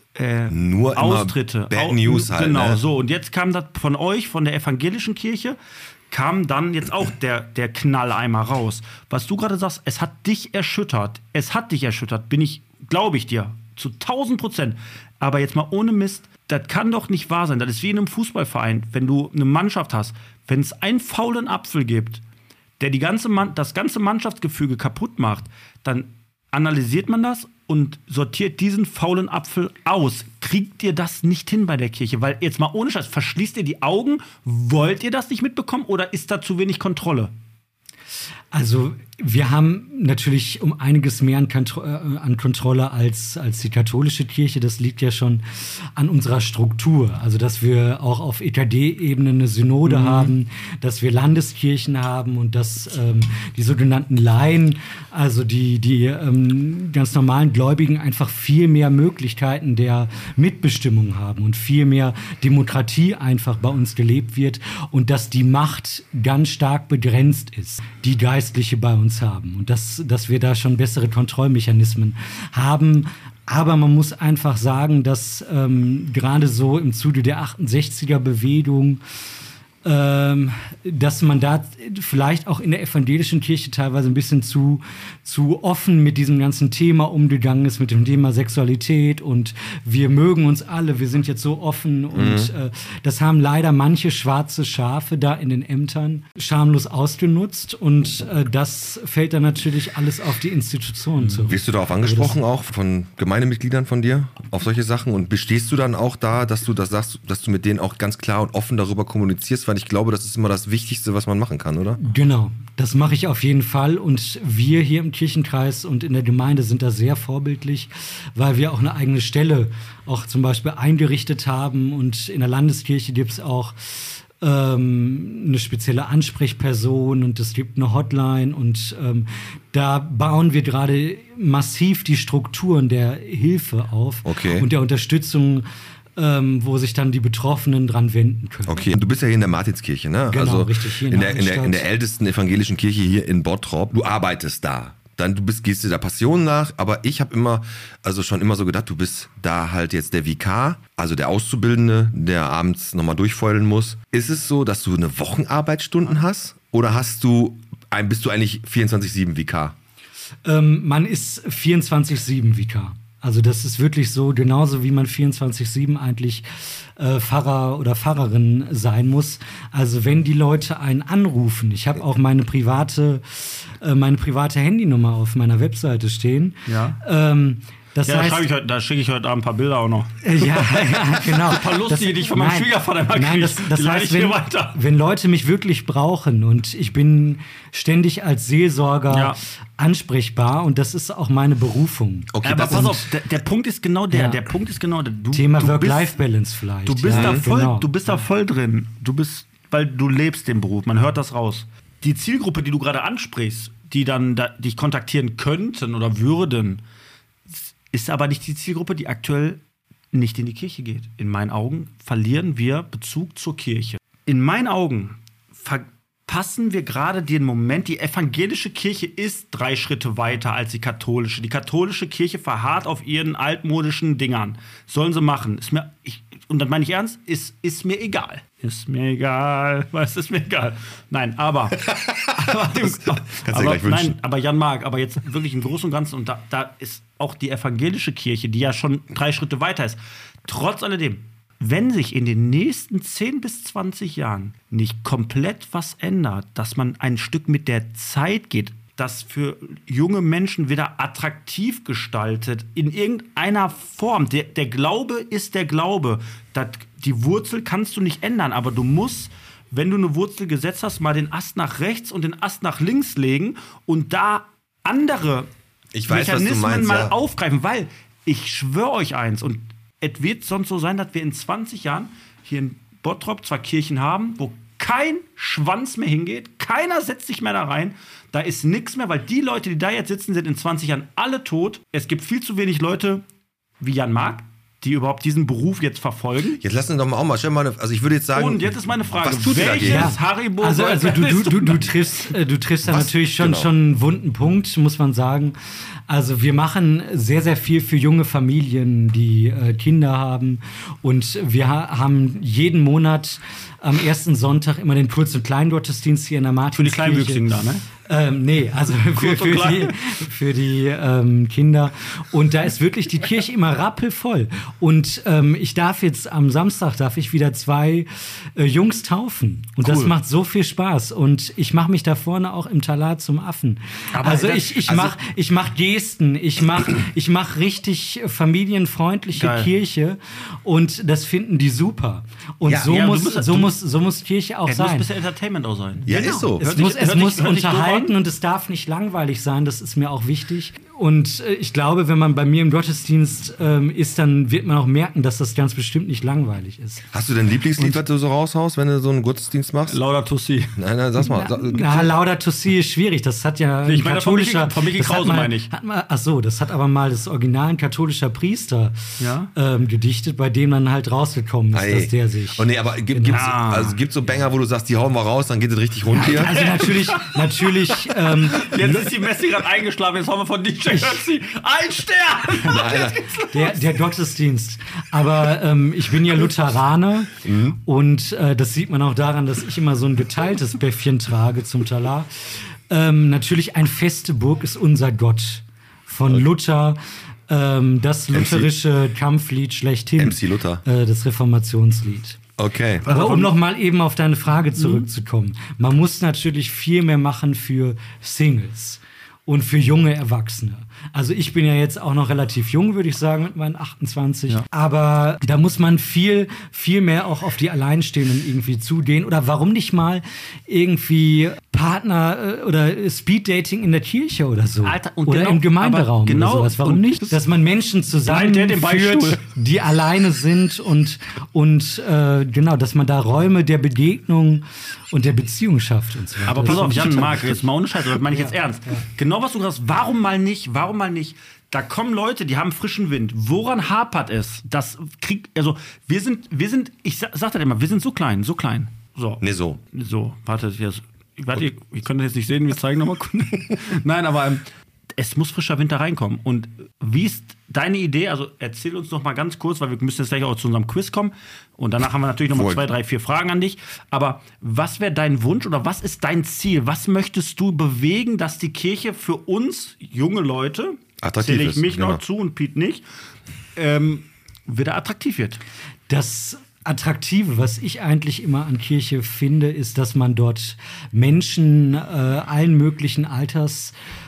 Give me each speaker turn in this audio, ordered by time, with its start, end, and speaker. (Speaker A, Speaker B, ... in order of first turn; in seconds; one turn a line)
Speaker A: 0.2-5.6
Speaker B: 0.5-2.8
Speaker A: 6.1-22.2
Speaker A: 22.8-37.3
Speaker C: 38.5-79.0
Speaker A: 49.9-50.3
Speaker C: 79.8-102.4
Speaker B: 92.1-92.5
Speaker B: 101.5-112.0
Speaker C: 112.0-138.9
Speaker B: 134.2-134.7
Speaker B: 138.7-159.8
Speaker C: 140.3-141.9
Speaker C: 160.4-178.5
Speaker A: 176.7-177.0
Speaker A: 178.1-184.8
Speaker C: 180.2-192.3
Speaker A: 189.1-189.4
Speaker B: 192.3-193.1
Speaker A: 192.4-196.1
Speaker C: 194.1-194.4
Speaker C: 195.3-197.9
Speaker A: 196.9-206.8
Speaker B: 197.1-197.4
Speaker A: 207.9-209.6
Speaker A: 210.1-265.5
Speaker B: 231.8-234.2
Speaker B: 265.9-267.1
Speaker A: 266.1-283.2
Speaker A: 283.8-286.6
Speaker B: 286.6-290.1
Speaker A: 288.3-292.2
Speaker C: 289.8-295.6
Speaker B: 292.9-293.7
Speaker C: 296.1-307.5
Speaker A: 306.7-307.9
Speaker C: 308.0-335.1
Speaker A: 309.1-310.1
Speaker A: 324.1-324.8
Speaker B: 324.9-325.1
Speaker A: 329.4-329.7
Speaker A: 332.8-333.7
Speaker A: 334.7-338.1
Speaker C: 336.0-347.1
Speaker B: 336.1-336.6
Speaker B: 347.1-350.0
Speaker A: 349.9-350.8
Speaker B: 350.8-352.1
Speaker C: 351.2-363.5
Speaker A: 353.9-355.7
Speaker A: 359.2-359.5
Speaker B: 361.7-366.6
Speaker A: 363.3-364.0
Speaker C: 366.1-369.2
Speaker A: 366.4-373.8
Speaker C: 370.9-371.2
Speaker B: 372.6-373.2
Speaker C: 373.5-392.4
Speaker B: 377.4-377.8
Speaker B: 388.3-388.7
Speaker B: 390.2-390.8
Speaker B: 392.6-393.1
Speaker C: 393.1-429.1
Speaker A: 393.1-393.5
Speaker A: 394.8-395.1
Speaker A: 414.8-417.4
Speaker A: 418.2-419.4
Speaker A: 426.4-463.1
Speaker B: 439.4-439.8
Speaker B: 452.5-452.9
Speaker B: 461.2-462.2
Speaker A: 463.8-465.6
Speaker C: 466.1-473.9